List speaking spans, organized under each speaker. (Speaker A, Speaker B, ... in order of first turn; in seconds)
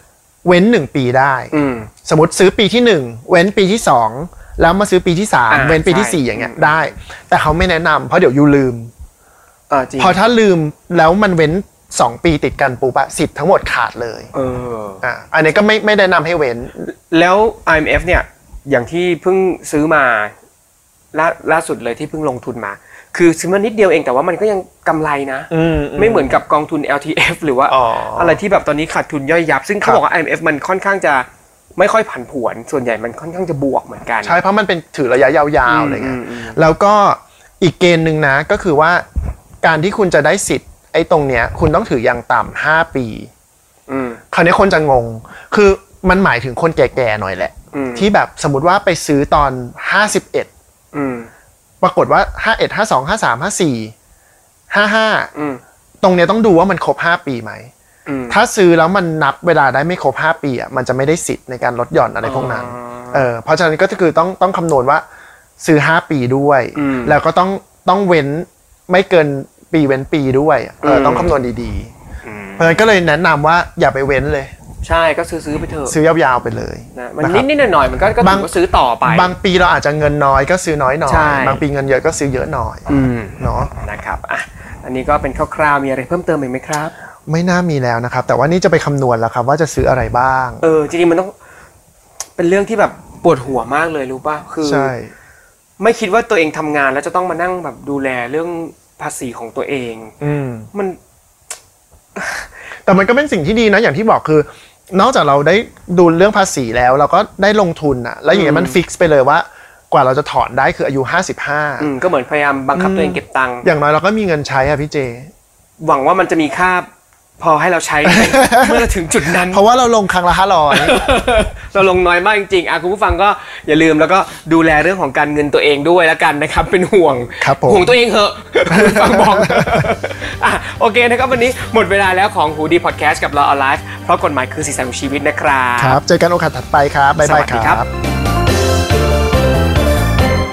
Speaker A: 0.4-1.5, 2.0-8.9, 10.0-14.3, 15.0-16.8, 25.5-26.4, 27.7-28.4, 34.2-39.0, 39.6-43.3, 44.3-50.5, 51.8-53.9, 54.7-55.3, 56.0-57.7, 58.3-65.0, 65.6-71.9, 72.6-74.5, 75.9-77.5, 78.2-78.5, 79.0-83.7, 87.3-90.6, 94.6-95.1, 100.2-100.7, 102.8-111.9, 112.7-115.3, 118.0-121.0, 127.4-127.9, 128.7-129.9, 135.8-137.9
Speaker B: 1.5-1.9, 5.5-6.8, 9.7-10.2, 14.3-15.0, 16.8-20.3, 21.1-34.4, 35.6-36.6, 43.9-44.2, 47.7-48.1, 50.9-51.3, 55.3-55.6, 58.0-58.4, 62.2-63.2, 66.7-67.2, 70.8-71.3, 72.2-72.8, 74.8-76.0, 76.9-79.3, 81.1-81.6, 82.9-86.9, 90.6-91.3, 92.4-94.9, 95.8-100.2, 102.2-102.5, 108.3-108.8, 111.8-113.7, 115.8-116.9, 117.4-119.6, 120.7-136.0, 137.2-137.8